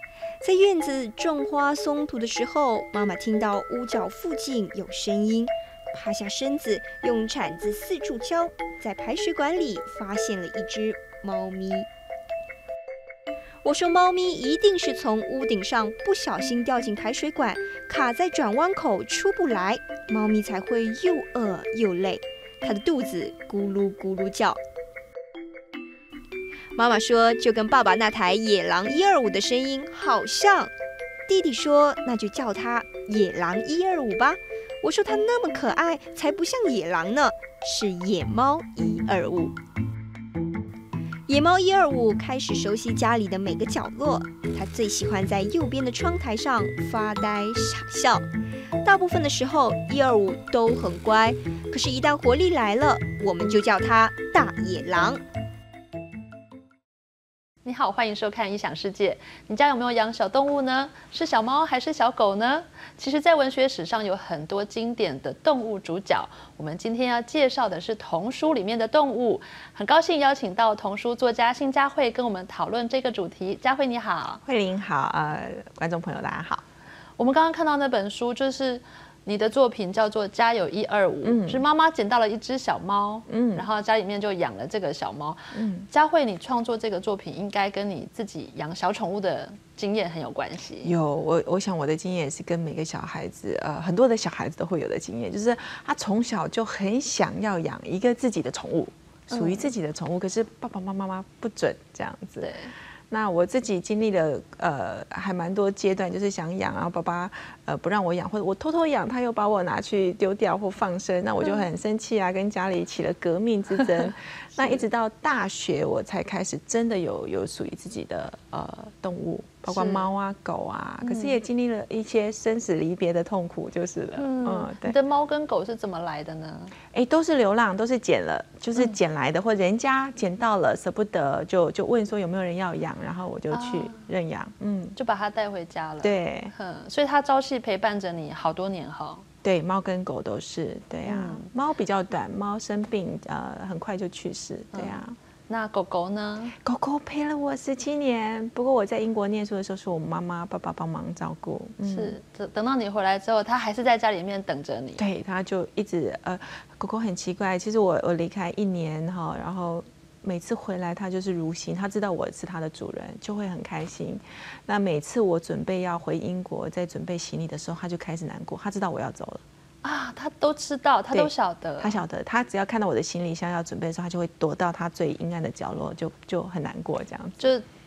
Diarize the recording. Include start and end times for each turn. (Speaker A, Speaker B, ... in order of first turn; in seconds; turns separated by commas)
Speaker A: 0.4-11.9, Speaker A: 13.6-24.6, Speaker A: 26.8-30.7, Speaker A: 31.3-39.5, Speaker A: 41.3-48.2, Speaker A: 48.8-55.2, Speaker B: 57.6-74.4, Speaker C: 74.4-76.6, Speaker B: 77.2-90.9, Speaker C: 81.2-81.6, Speaker C: 83.3-83.7, Speaker C: 85.5-85.9, Speaker C: 90.8-102.6, Speaker B: 99.3-99.7, Speaker B: 102.4-102.7, Speaker C: 103.1-125.0, Speaker B: 119.7-120.1, Speaker B: 121.0-121.4, Speaker B: 124.2-126.8, Speaker C: 126.9-135.0, Speaker B: 133.5-134.0, Speaker B: 135.0-139.2, Speaker C: 136.0-136.5, Speaker C: 139.4-145.2, Speaker B: 141.1-141.5, Speaker B: 144.7-146.6, Speaker C: 146.7-152.2, Speaker B: 151.8-155.1, Speaker C: 155.0-169.4, Speaker B: 169.8-172.0, Speaker C: 171.1-177.5, Speaker B: 177.4-177.7